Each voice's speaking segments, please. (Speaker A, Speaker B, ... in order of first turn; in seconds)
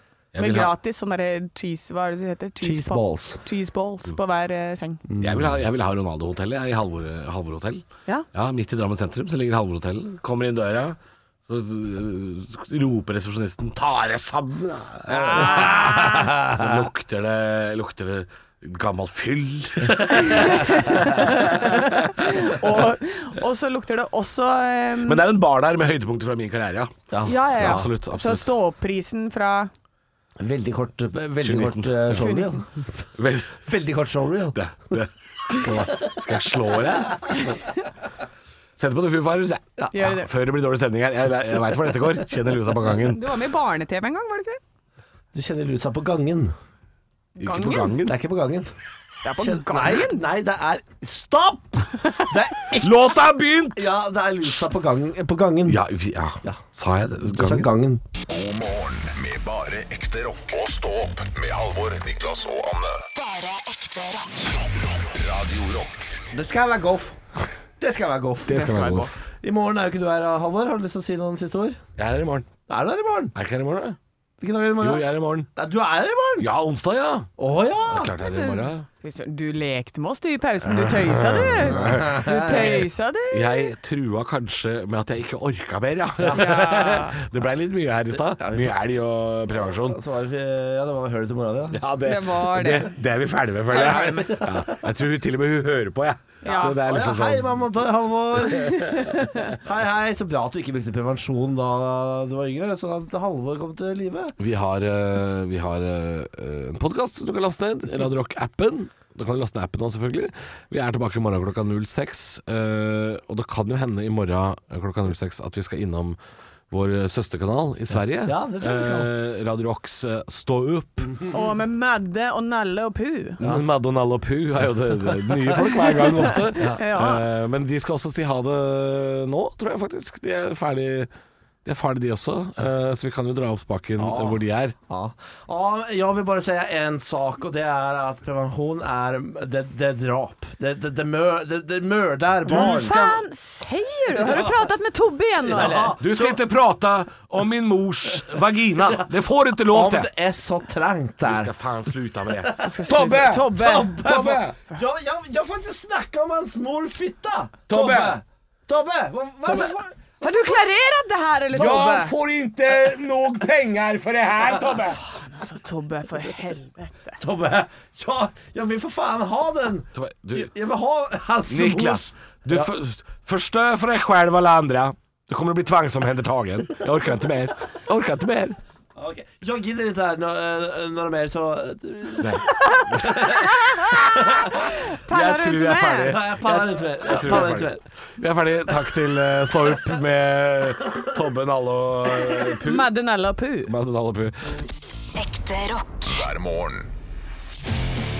Speaker A: 0.3-0.7, 5.2-22.1, 25.1-28.5, 31.4-32.3, 33.1-33.6, 34.5-37.5, 38.8-43.2, 47.4-48.1, 52.8-53.9, 55.7-57.7, 68.5-69.1, 72.0-72.5, 73.3-74.0, 74.8-75.5, 76.4-77.3, 77.9-78.8, 80.8-82.7, 83.3-90.0, 91.7-97.5, 104.4-116.2, 116.7-121.2, 123.4-131.1, 131.6-134.7, 142.5-143.2, 146.0-150.1, 151.2-154.6, 157.7-158.2, 159.4-159.7, 161.5-165.0, 169.9-170.5, 171.5-178.6, 182.2-183.2, 185.1-192.9, 193.7-194.5
Speaker B: 0.3-5.0, 15.1-16.1, 20.1-25.2, 27.2-29.7, 32.1-32.6, 37.3-37.7, 39.9-40.3, 42.9-44.6, 47.4-48.0, 49.2-50.2, 68.5-69.1, 78.2-83.7, 86.3-87.2, 92.0-92.9, 93.7-94.2, 96.4-96.8, 98.5-99.5, 121.2-123.4, 125.6-127.2, 142.5-145.9, 152.6-154.0, 160.2-162.1, 164.9-167.2, 182.5-186.2, 192.2-193.7
Speaker C: 2.6-3.4, 5.1-5.5, 15.1-16.8, 27.1-27.9, 30.4-33.0, 33.6-34.6, 45.3-46.5, 47.9-48.7, 49.3-53.0, 53.7-55.8, 57.2-58.0, 66.3-67.2, 67.8-71.8, 72.7-73.3, 74.4-76.5, 77.4-78.1, 81.8-82.8, 86.2-86.7, 88.4-88.7, 89.8-91.8, 93.7-94.8, 96.5-104.3, 118.2-119.1, 134.0-143.1, 145.4-146.4, 149.7-151.5, 152.4-159.9, 161.5-162.0, 167.2-172.7, 178.9-184.5, 186.0-187.8
Speaker D: 58.3-63.0, 65.0-66.2, 196.1-196.9
Speaker E: 63.1-64.5, 195.2-196.0